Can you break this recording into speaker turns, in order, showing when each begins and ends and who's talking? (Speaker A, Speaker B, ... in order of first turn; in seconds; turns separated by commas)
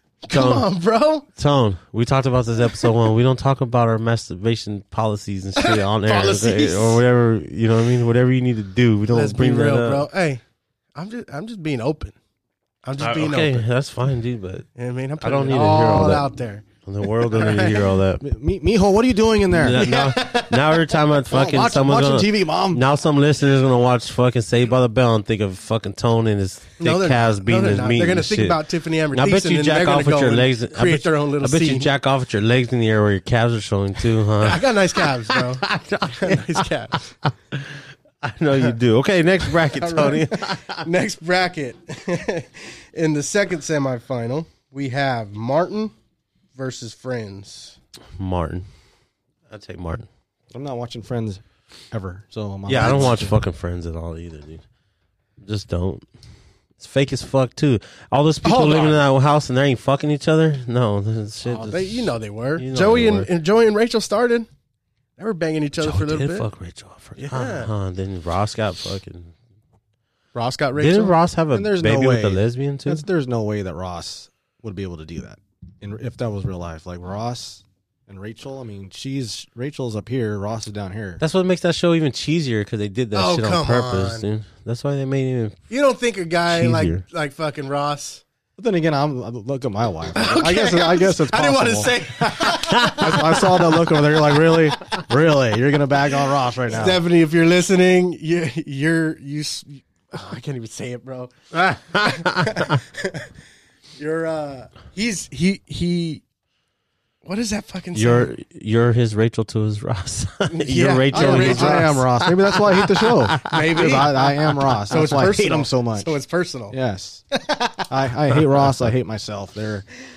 Speaker A: 0.3-1.3, Speaker B: 0.3-0.7, Speaker B: 1.4-10.1, Speaker A: 5.6-7.0, Speaker A: 9.1-10.4, Speaker A: 10.9-12.2, Speaker A: 12.8-13.7, Speaker B: 13.0-14.7, Speaker A: 14.8-17.8, Speaker B: 15.2-16.3, Speaker B: 16.8-18.2, Speaker C: 18.2-19.9, Speaker B: 19.6-28.6, Speaker A: 19.7-20.8, Speaker C: 21.3-22.8, Speaker A: 26.8-31.9, Speaker B: 29.1-40.9, Speaker A: 34.4-37.0, Speaker A: 39.7-45.9, Speaker A: 46.5-47.8, Speaker B: 48.2-48.7, Speaker B: 49.5-50.1, Speaker C: 50.5-53.4, Speaker B: 52.7-54.6, Speaker A: 52.8-53.1, Speaker B: 55.4-56.0, Speaker B: 56.8-63.3, Speaker A: 58.4-59.0, Speaker A: 61.5-64.5, Speaker A: 65.2-66.5, Speaker B: 65.8-69.3, Speaker A: 67.2-67.7, Speaker A: 70.3-71.2, Speaker B: 70.8-73.0, Speaker C: 71.5-81.2, Speaker B: 81.2-85.6, Speaker A: 83.1-84.2, Speaker A: 85.7-88.2, Speaker B: 86.5-87.0, Speaker C: 88.6-97.0, Speaker A: 90.2-95.0, Speaker A: 96.7-103.3, Speaker B: 101.6-102.7, Speaker A: 104.0-106.2, Speaker A: 107.2-108.3, Speaker B: 108.0-113.5, Speaker A: 110.5-112.1, Speaker C: 111.1-116.1, Speaker A: 113.4-116.8, Speaker C: 116.7-117.2, Speaker A: 117.3-117.9, Speaker C: 117.9-119.9